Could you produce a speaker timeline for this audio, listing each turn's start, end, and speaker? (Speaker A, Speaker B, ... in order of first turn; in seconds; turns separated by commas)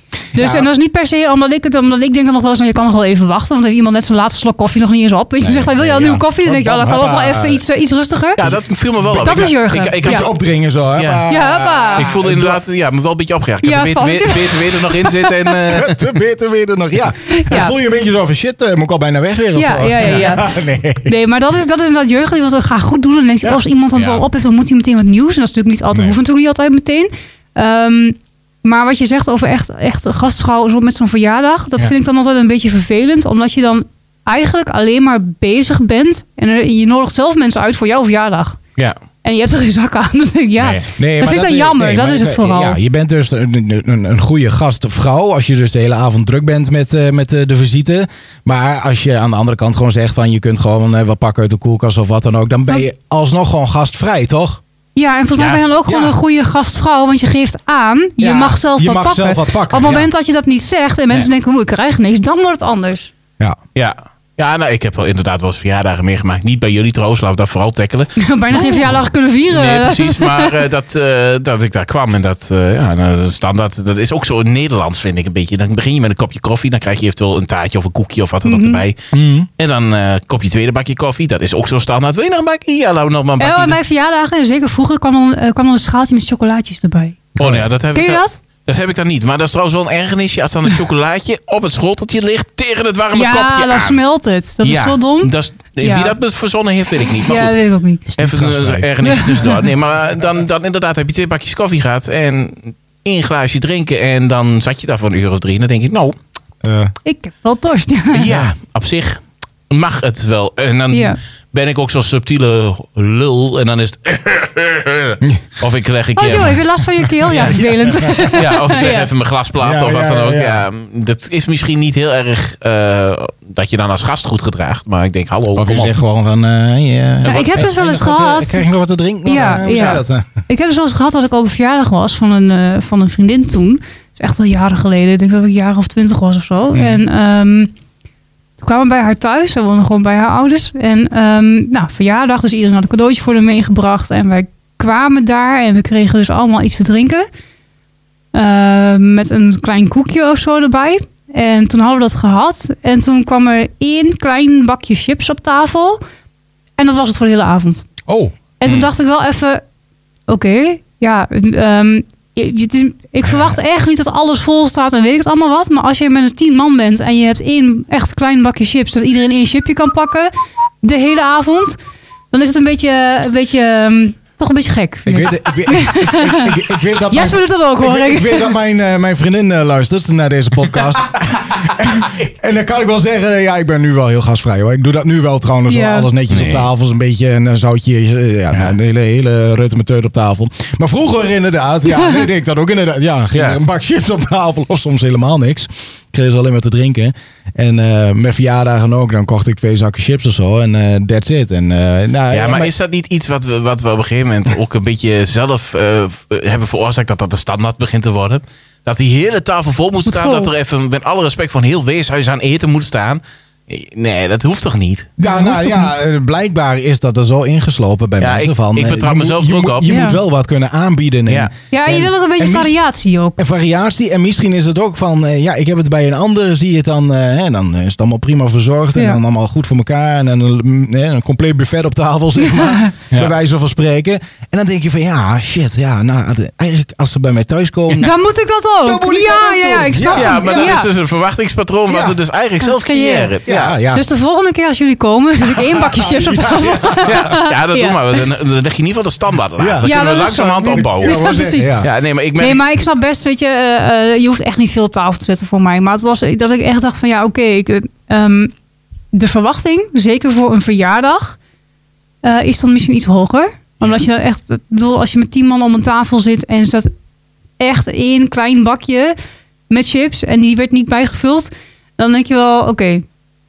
Speaker A: 0.3-0.7, Speaker B: 0.3-8.4, Speaker A: 5.4-7.6, Speaker C: 8.4-10.3, Speaker A: 9.1-9.5, Speaker B: 9.1-10.3, Speaker A: 10.0-12.6, Speaker C: 11.0-11.3, Speaker B: 11.3-12.2, Speaker C: 11.9-16.1, Speaker B: 13.6-15.6, Speaker A: 15.7-21.1, Speaker B: 17.3-17.8, Speaker B: 19.6-20.5, Speaker B: 21.1-38.6, Speaker A: 24.0-24.2, Speaker B: 39.2-42.8, Speaker C: 40.6-40.9, Speaker A: 41.0-54.6, Speaker B: 55.0-63.1, Speaker A: 55.9-56.1, Speaker A: 58.2-60.1, Speaker C: 63.8-79.0, Speaker B: 68.2-70.6, Speaker B: 78.5-78.8, Speaker A: 79.1-79.5, Speaker C: 79.6-83.8, Speaker B: 83.4-87.2, Speaker A: 87.4-87.7, Speaker C: 87.4-94.0, Speaker B: 87.9-88.4, Speaker B: 93.1-96.2, Speaker C: 94.6-97.6, Speaker B: 97.2-98.1, Speaker A: 98.1-98.9, Speaker C: 98.2-106.2, Speaker B: 99.0-99.7, Speaker A: 106.6-106.9, Speaker B: 107.0-108.3, Speaker C: 108.1-116.6, Speaker A: 108.3-108.5, Speaker B: 110.9-111.2, Speaker B: 116.2-119.1, Speaker A: 117.3-118.3, Speaker C: 117.3-117.6, Speaker C: 118.3-125.9, Speaker A: 119.6-120.7, Speaker A: 125.6-130.3, Speaker C: 127.2-127.7, Speaker B: 127.3-128.7, Speaker B: 129.2-137.7, Speaker C: 129.7-130.0, Speaker A: 136.7-137.0, Speaker B: 138.6-147.3, Speaker B: 148.3-156.0, Speaker B: 156.8-157.8, Speaker A: 158.1-158.3, Speaker B: 158.6-159.6, Speaker B: 160.3-170.3, Speaker B: 170.8-171.8, Speaker B: 172.3-178.5, Speaker A: 175.1-202.7, Speaker B: 185.7-186.1, Speaker C: 186.3-186.7, Speaker B: 191.9-192.2, Speaker C: 193.3-193.6, Speaker C: 202.3-215.1, Speaker B: 210.1-210.5, Speaker A: 215.2-222.7, Speaker B: 215.2-215.9, Speaker C: 218.2-219.9, Speaker B: 219.9-220.2, Speaker B: 221.7-223.4, Speaker A: 223.4-238.1, Speaker B: 232.4-232.9, Speaker B: 238.0-240.9, Speaker A: 238.8-240.8, Speaker C: 240.2-243.8, Speaker A: 241.9-242.2, Speaker B: 242.6-243.3, Speaker A: 243.4-244.0, Speaker B: 243.9-248.0, Speaker A: 245.4-247.3, Speaker C: 247.0-251.3, Speaker A: 249.6-249.9, Speaker B: 249.8-251.8, Speaker A: 250.7-251.9, Speaker C: 251.8-252.7, Speaker B: 252.4-258.5, Speaker B: 259.1-261.4, Speaker B: 262.2-266.9, Speaker B: 267.6-269.1, Speaker B: 269.7-273.1